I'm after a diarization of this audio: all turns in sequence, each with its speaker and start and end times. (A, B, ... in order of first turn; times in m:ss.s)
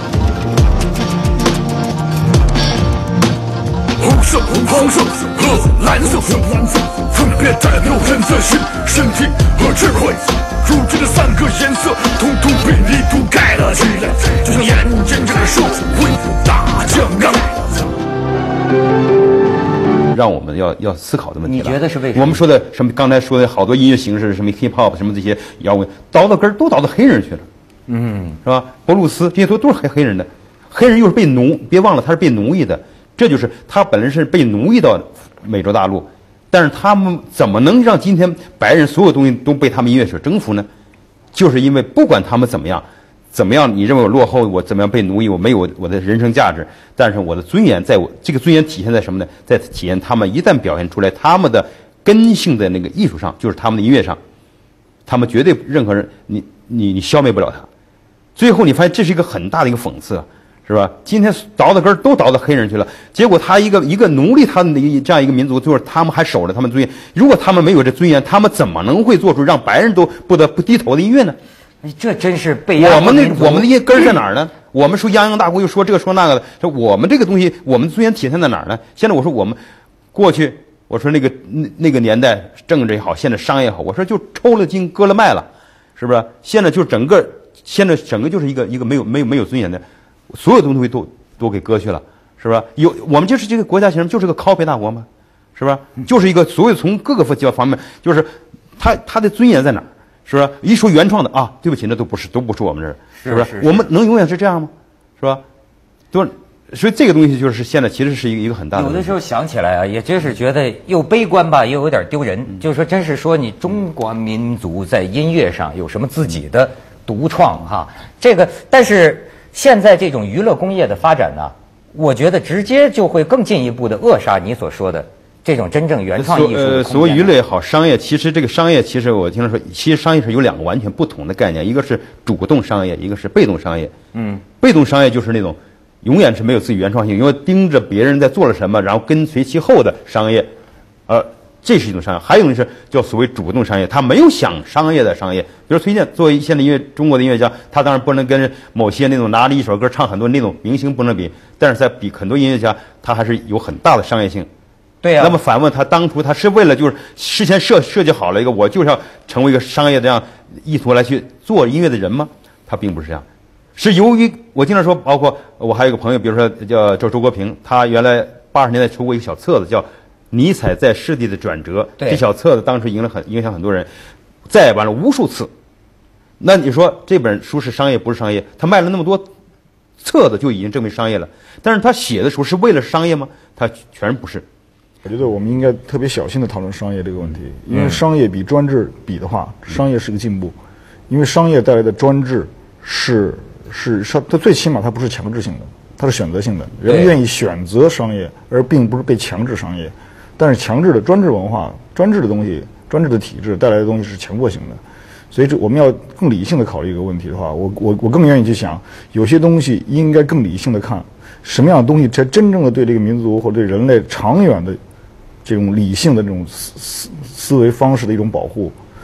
0:04.0-0:17.8 A
0:20.1-0:27.4 B
0:21.4-0:22.4 C
0:27.9-0:28.4 C
0:28.4-0:40.7 B
0:41.3-0:54.2 B
0:55.0-0:57.7 B
0:58.4-1:11.4 B
1:11.8-1:13.7 C
1:12.8-1:19.6 B
1:20.1-1:45.4 B
1:43.2-1:43.9 C
1:46.1-1:49.1 B
1:48.7-2:07.3 C
2:06.2-2:13.9 B
2:14.1-2:14.4 C
2:14.6-2:20.5 B
2:21.1-2:34.5 B
2:35.0-2:35.4 C
2:35.2-2:43.2 B
2:43.8-2:53.9 B
2:54.5-2:55.5 B
2:56.4-2:59.3 B
3:00.0-3:04.4 B
3:05.0-3:10.6 D
3:07.7-3:08.0 C
3:11.1-3:24.8 D
3:16.8-3:17.1 C
3:25.3-3:34.8 D
3:35.4-3:38.7 D